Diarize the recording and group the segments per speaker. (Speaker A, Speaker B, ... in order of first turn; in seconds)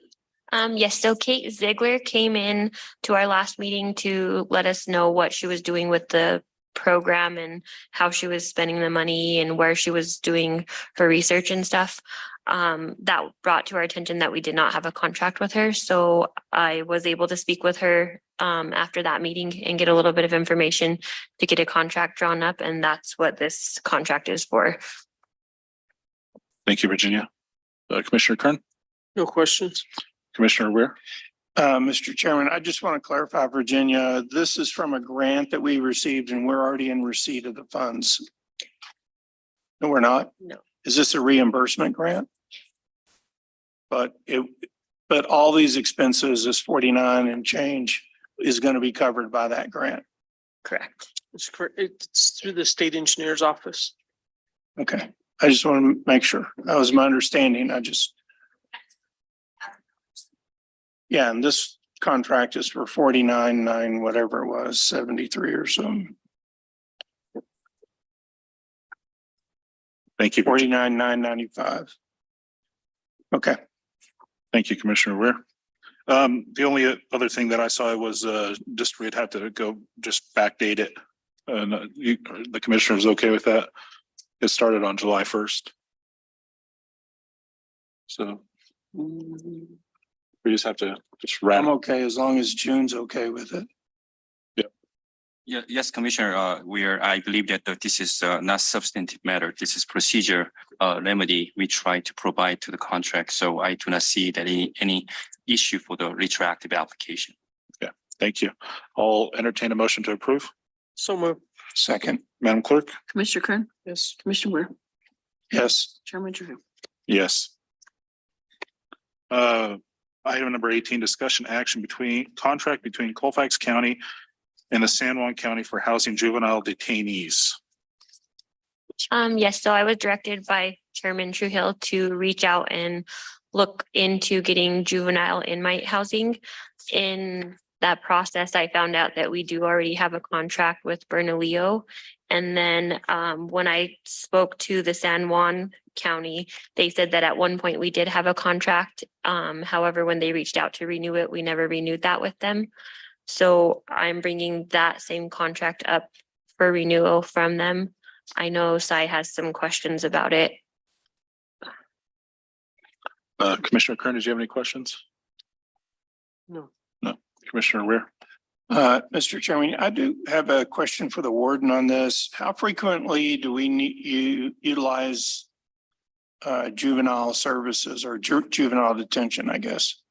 Speaker A: 0.5-24.8, 50.6-51.0, 129.1-152.7, 153.3-160.6
Speaker B: 26.6-27.3, 27.9-28.6, 30.3-30.9, 70.2-70.6, 74.5-75.4, 76.1-80.9, 81.5-83.7, 84.4-85.7, 88.1-88.4, 90.4-91.7, 107.8-110.5, 112.4-112.9, 117.1-117.5, 119.3-124.0, 124.7-127.6, 163.4-165.0, 167.0-168.1
Speaker C: 29.1-29.8, 51.3-53.9, 111.0-111.4, 113.8-114.1
Speaker D: 31.6-38.2, 39.8-42.3, 43.9-50.0, 54.8-58.1, 61.1-66.1, 70.4-71.9, 73.3-73.6, 91.5-93.7, 111.7-112.2, 115.5-115.9, 168.7-175.5, 176.4-180.0
Speaker E: 95.5-107.3
Speaker F: 113.1-114.7, 116.0-116.6